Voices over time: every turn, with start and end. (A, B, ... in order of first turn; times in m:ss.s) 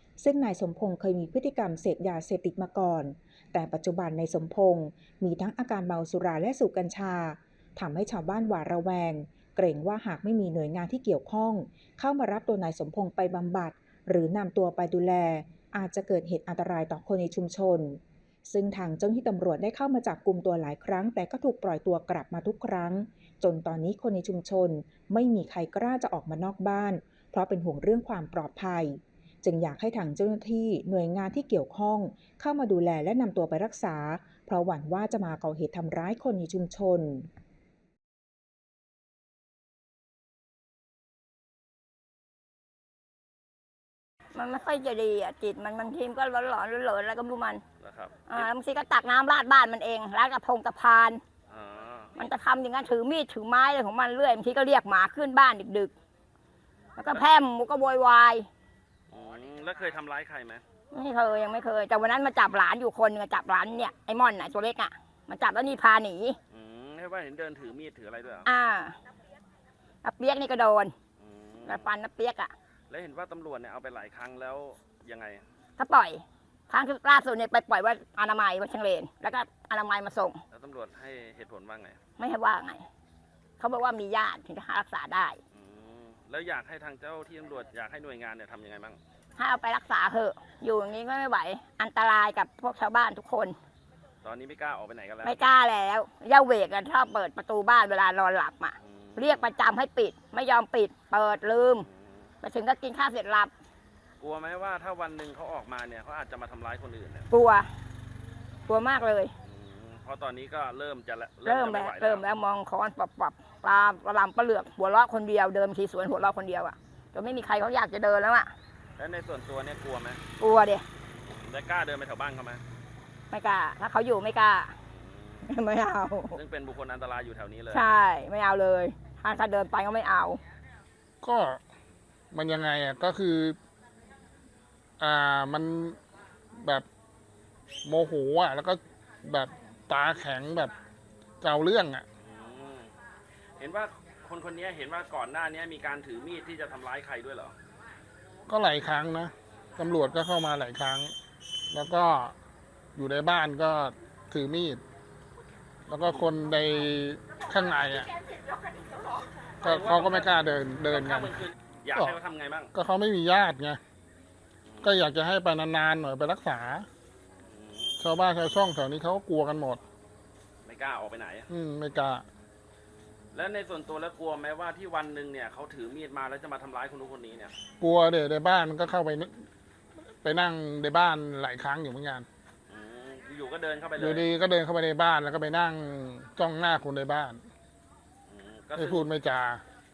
0:00.2-0:37.3 A
0:44.3-0:47.6 B
0:47.8-0:48.5 C
0:48.3-0:51.2 B
0:51.5-0:52.1 C
0:52.2-0:55.9 B
0:57.0-0:58.5 B
0:57.0-0:57.3 C
0:59.1-1:00.6 C
1:00.9-1:06.4 B
1:06.5-1:08.5 C
1:08.5-1:09.0 B
1:10.0-1:11.0 B
1:11.2-1:11.9 C
1:11.7-1:12.5 B
1:12.9-1:15.4 C
1:15.8-1:20.4 B
1:20.5-1:22.0 C
1:22.2-1:22.8 B
1:23.6-1:25.4 B
1:25.5-1:29.0 C
1:29.4-1:33.6 B
1:34.2-1:35.4 C
1:35.2-1:41.9 B
1:38.8-1:39.5 C
1:41.9-1:42.2 C
1:42.4-1:43.5 B
1:44.2-1:47.3 C
1:47.3-1:47.7 B
1:48.7-1:49.3 B
1:49.4-1:52.2 C
1:51.4-1:58.5 B
1:59.0-2:00.2 C
2:00.4-2:00.8 B
2:01.3-2:02.6 C
2:03.3-2:04.7 B
2:04.9-2:05.4 C
2:05.4-2:06.4 B
2:06.3-2:08.1 C
2:07.7-2:10.4 B
2:11.2-2:11.6 D
2:12.3-2:13.6 D
2:15.0-2:16.0 D
2:16.6-2:16.9 D
2:17.8-2:20.7 D
2:21.4-2:22.0 D
2:22.2-2:22.9 C
2:23.6-2:27.6 C
2:28.5-2:31.1 D
2:31.7-2:32.3 D
2:33.0-2:34.8 D
2:35.9-2:38.1 D
2:39.6-2:41.3 D
2:39.6-2:42.7 C
2:42.7-2:43.8 D
2:44.7-2:45.0 C
2:44.8-2:46.9 D
2:47.5-2:48.0 C
2:48.0-2:49.8 D
2:50.7-2:51.5 C
2:51.5-2:52.2 D
2:53.3-2:57.6 C
2:57.8-2:59.4 D
3:00.2-3:02.3 D
3:02.7-3:04.3 C
3:04.0-3:07.4 D
3:08.3-3:09.0 C
3:08.8-3:09.6 D